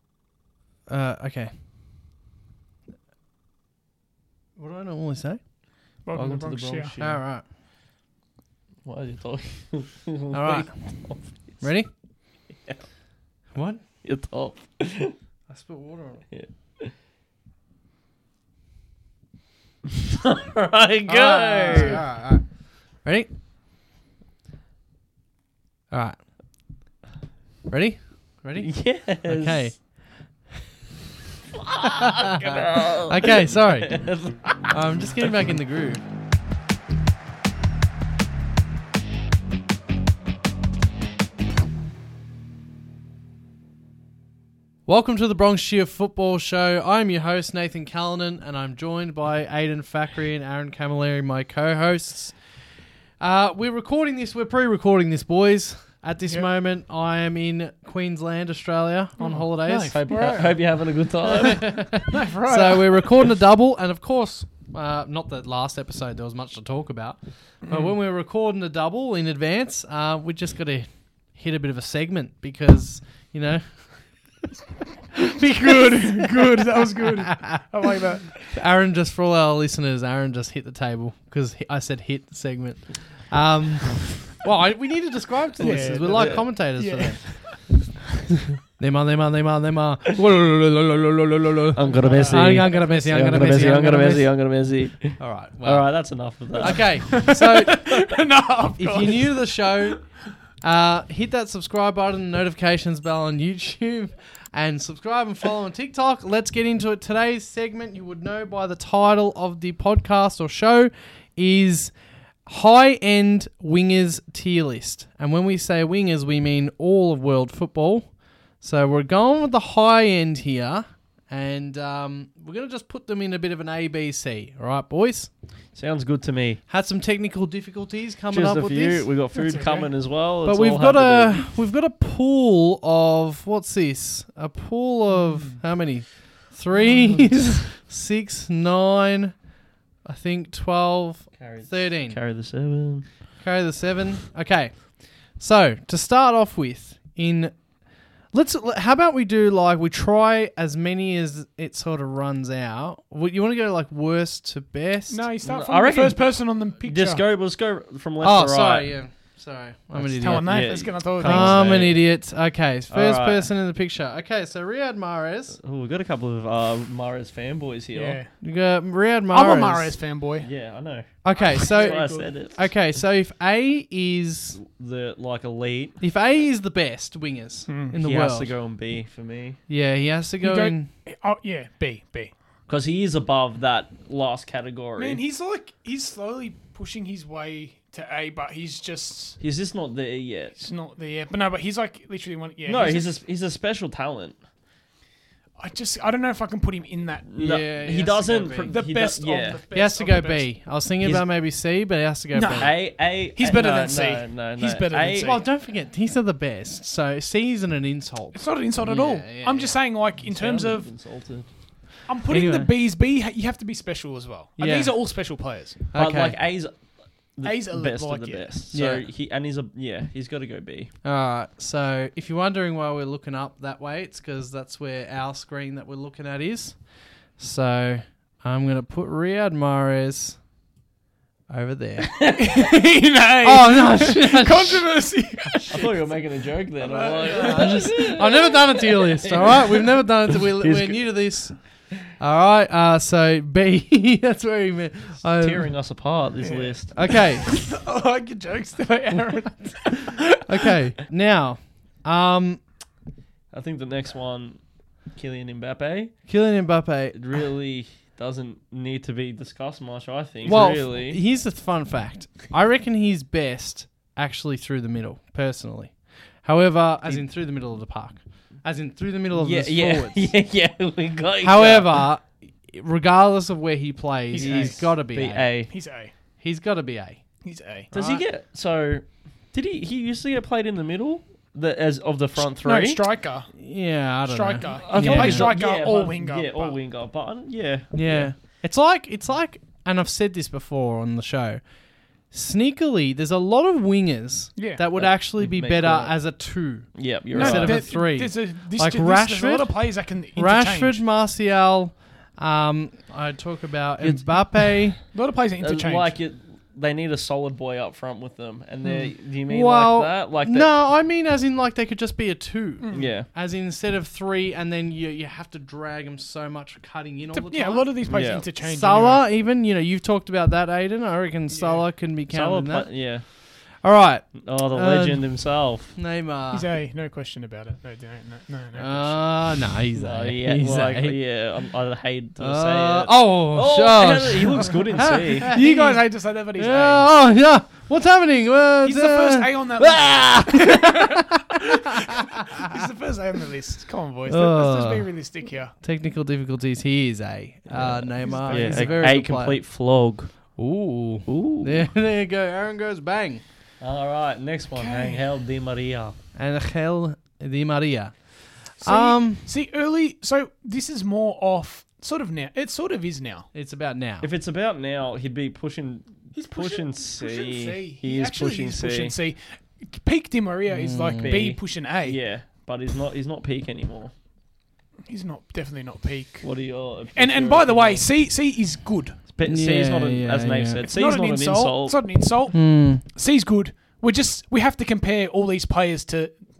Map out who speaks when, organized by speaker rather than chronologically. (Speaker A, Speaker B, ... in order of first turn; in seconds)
Speaker A: 0.9-1.5, 4.6-5.4, 7.0-7.4, 10.3-10.7, 11.6-11.9, 13.5-13.8, 15.5-16.3, 21.1-23.3, 25.9-26.2, 27.7-30.0, 31.8-34.0, 34.7-36.0, 44.9-52.6, 53.2-60.4, 61.4-74.4, 75.1-78.0, 78.5-87.7, 88.7-94.3, 95.2-98.1, 98.8-100.1, 100.6-111.9, 112.4-125.3, 126.7-129.1, 130.4-139.3, 140.0-142.2, 143.4-147.7, 148.3-155.2, 158.2-165.6, 168.4-169.9, 171.2-174.6, 176.0-178.5, 179.7-180.9, 197.3-198.8, 199.7-202.7, 205.2-209.8, 212.3-212.7, 214.6-214.9, 215.9-216.4, 218.7-219.0, 221.0-226.8, 227.3-230.4, 231.5-232.4, 233.4-234.9, 237.3-245.7, 246.9-247.5, 250.4-252.6, 256.2-257.2, 260.4-270.3, 271.4-275.6, 276.4-277.2, 277.9-278.2, 283.6-285.6, 287.9-291.6, 292.3-299.8, 300.4-305.0, 308.8-317.9, 318.6-323.0, 323.8-326.7, 328.8-331.1, 332.4-342.7, 344.3-345.1, 345.8-349.6, 350.6-353.4, 356.3-359.5, 363.5-364.3, 370.7-371.4, 379.4-380.9, 382.5-383.0
Speaker B: 6.0-6.9, 21.7-22.0, 32.4-32.8, 59.2-60.6, 61.4-63.1, 67.6-68.0, 75.3-78.6, 85.6-87.7, 91.9-92.8, 96.5-100.0, 129.3-129.9, 135.1-135.6, 136.8-137.2, 155.1-157.2, 160.2-161.8, 167.9-168.4, 169.3-170.5, 171.3-172.3, 177.7-178.0, 180.4-182.3, 185.0-189.4, 190.6-193.2, 195.6-197.3, 198.6-200.5, 202.3-205.4, 208.3-210.9, 212.1-215.8, 217.4-218.5, 232.3-235.9, 236.8-237.9, 246.4-250.3, 274.3-274.9, 275.7-276.1, 277.4-277.9, 282.4-283.6, 284.2-286.8, 294.6-294.8, 297.3-301.0, 305.0-306.1, 312.8-313.1, 317.3-319.2, 321.5-321.9, 326.5-329.2, 335.4-337.1, 338.8-345.7, 348.2-349.1, 354.7-355.3, 358.8-363.5, 366.3-372.2, 375.1-376.5, 377.1-379.2, 380.8-386.4
Speaker C: 6.1-7.2, 8.8-11.7, 12.5-12.8, 14.0-15.2, 16.3-16.9, 20.0-22.0, 28.6-29.6, 31.6-34.7, 59.9-61.9, 85.6-86.5, 91.7-97.2, 125.7-126.6, 128.3-131.5, 141.3-143.1, 155.4-158.9, 159.9-162.1, 162.9-163.5, 165.5-168.2, 170.4-172.6, 174.6-176.0, 178.0-179.6, 182.7-185.2, 189.4-190.6, 192.7-194.4, 197.3-199.6, 201.0-201.3, 202.5-205.4, 210.2-211.5, 215.9-216.8, 217.3-220.9, 232.2-232.6, 235.7-241.2, 245.4-247.1, 253.5-256.3, 257.1-261.2, 269.3-272.0, 274.4-275.7, 277.9-283.0, 284.7-288.3, 294.9-296.2, 296.9-297.9, 305.6-310.7, 312.9-313.3, 318.1-318.4, 322.3-323.2, 324.3-326.0, 329.9-335.6, 347.7-350.6, 351.3-351.9, 353.8-356.2, 364.2-369.1, 371.2-374.1, 376.4-378.1, 379.3-382.0